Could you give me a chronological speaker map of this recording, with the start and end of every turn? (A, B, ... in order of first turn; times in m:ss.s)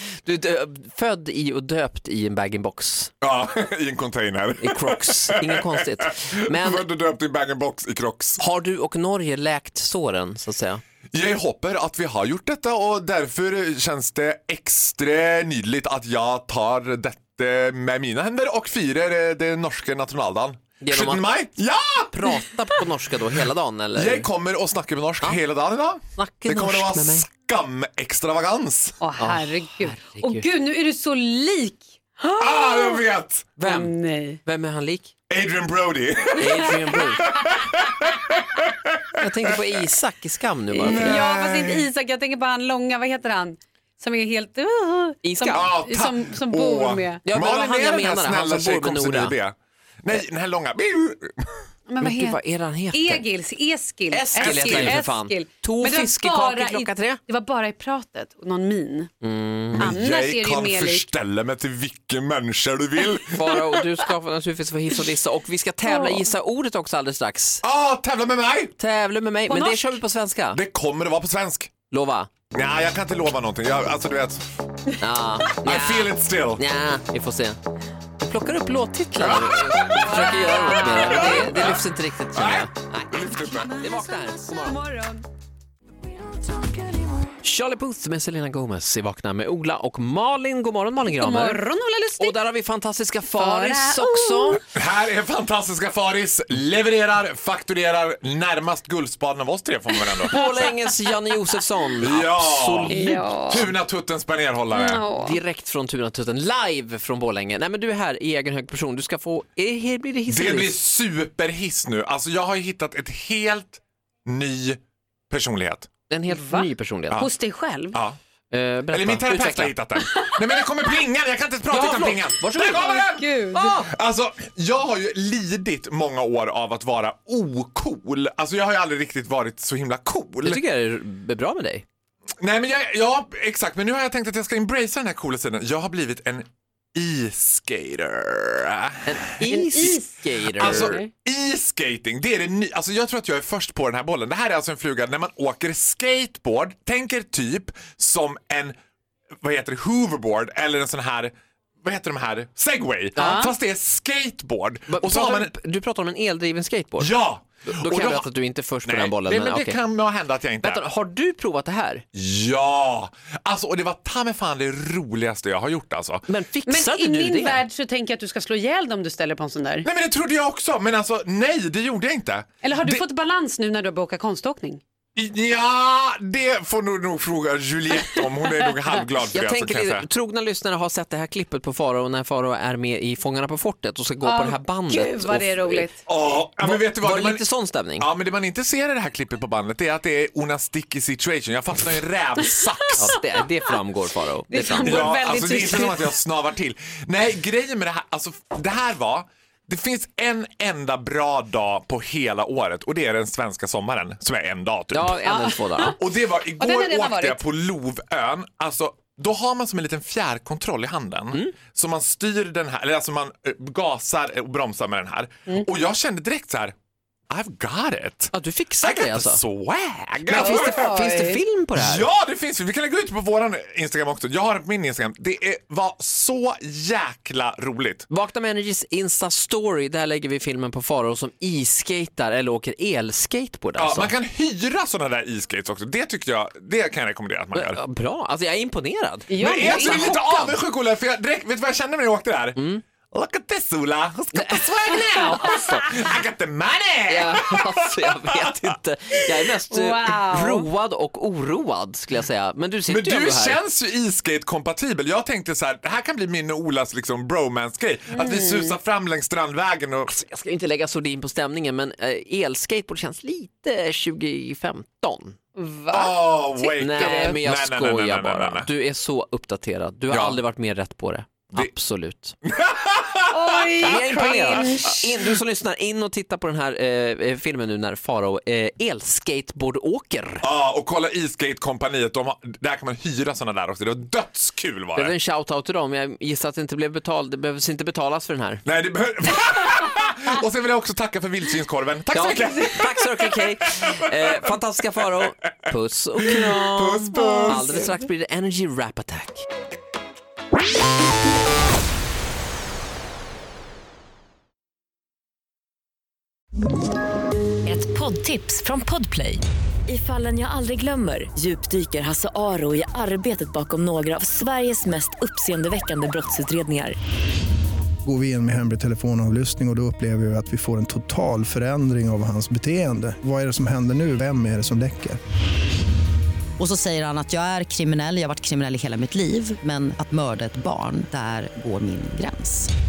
0:00.2-0:03.1 A
0:03.2-0:08.4 B
0:04.6-0:06.8 A
0:08.4-0:10.8 A
0:11.1-0:22.4 B
0:20.8-0:21.3 A
0:22.1-0:24.3 A
0:24.0-0:29.0 B
0:26.2-0:27.3 A
0:29.0-0:33.0 C
0:29.2-0:30.4 A
0:32.4-0:33.6 B
0:33.6-0:35.1 A
0:33.6-0:34.4 C
0:35.3-0:39.5 B
0:36.4-0:37.2 A
0:39.2-0:41.2 A
0:40.7-0:41.9 B
0:40.8-0:47.2 C
0:45.2-0:45.7 A
0:45.5-0:51.6 B
0:47.2-0:49.4 A
0:51.9-0:52.4 C
0:52.0-0:53.2 A
0:52.9-0:59.1 C
0:54.1-0:57.2 A
0:54.4-0:55.0 B
0:59.2-1:00.0 A
0:59.7-1:03.6 B
0:59.8-1:01.1 C
1:03.3-1:07.6 A
1:05.9-1:06.2 C
1:07.6-1:08.8 B
1:08.8-1:10.6 A
1:09.5-1:10.0 C
1:10.5-1:11.7 B
1:11.9-1:12.3 A
1:12.5-1:14.4 B
1:15.0-1:17.6 A
1:15.6-1:16.6 B
1:18.2-1:24.8 A
1:19.3-1:21.8 C
1:21.0-1:21.8 B
1:22.3-1:23.9 B
1:24.2-1:25.2 C
1:27.4-1:31.6 A
1:31.1-1:32.4 C
1:32.2-1:34.6 A
1:33.3-1:34.6 C
1:34.6-1:40.4 B
1:40.2-1:40.6 C
1:40.3-1:43.7 A
1:42.0-1:45.1 B
1:42.9-1:43.7 C
1:44.7-1:45.4 C
1:45.2-1:50.8 A
1:50.3-1:54.8 B
1:55.3-1:55.9 B
1:56.1-1:57.3 A
1:56.3-1:58.0 C
1:57.9-1:58.2 B
1:58.5-1:59.8 A
1:58.9-2:10.6 B
2:00.2-2:00.4 C
2:01.7-2:02.9 A
2:02.6-2:03.8 C
2:03.5-2:03.9 A
2:10.4-2:11.8 A
2:12.4-2:20.0 B
2:19.1-2:21.0 A
2:19.5-2:21.1 C
2:20.6-2:28.8 B
2:29.4-2:35.5 B
2:33.2-2:33.5 C
2:34.9-2:37.1 A
2:37.0-2:38.3 B
2:37.7-2:39.8 A
2:38.8-2:40.9 B
2:40.6-2:42.0 A
2:42.1-2:46.2 B
2:46.3-2:47.6 A
2:46.7-2:49.9 C
2:49.8-2:53.0 B
2:52.6-2:54.8 C
2:55.2-3:00.1 B
2:59.3-3:05.9 A
3:04.2-3:06.0 C
3:06.0-3:07.4 B
3:06.6-3:08.1 A
3:08.0-3:13.2 B
3:12.9-3:13.2 C
3:13.0-3:15.1 A
3:14.5-3:16.1 C
3:14.8-3:25.2 B
3:24.9-3:26.0 A
3:25.2-3:26.0 C
3:26.0-3:36.8 B
3:26.6-3:27.4 C
3:37.3-3:41.0 B
3:38.3-3:39.4 A
3:40.3-3:42.1 A
3:40.4-3:41.4 C
3:41.8-3:48.1 B
3:48.1-3:54.1 A
3:53.8-3:57.8 B
3:57.5-4:00.6 A
3:59.3-4:00.2 C
3:59.4-4:08.7 B
4:02.6-4:02.8 A
4:04.3-4:05.9 A
4:07.1-4:13.6 A
4:09.7-4:10.7 C
4:12.9-4:20.1 B
4:18.1-4:18.8 C
4:20.1-4:25.4 A
4:25.6-4:27.4 C
4:25.9-4:28.7 B
4:26.8-4:32.4 A
4:30.1-4:30.4 B
4:32.4-4:35.1 B
4:33.3-4:35.0 C
4:33.8-4:40.4 A
4:40.4-4:45.1 B
4:45.0-4:48.6 A
4:48.6-4:54.5 B
4:52.1-4:59.5 A
4:56.3-4:57.8 B
5:07.7-5:17.0 D
5:18.0-5:25.2 E
5:26.6-5:32.7 F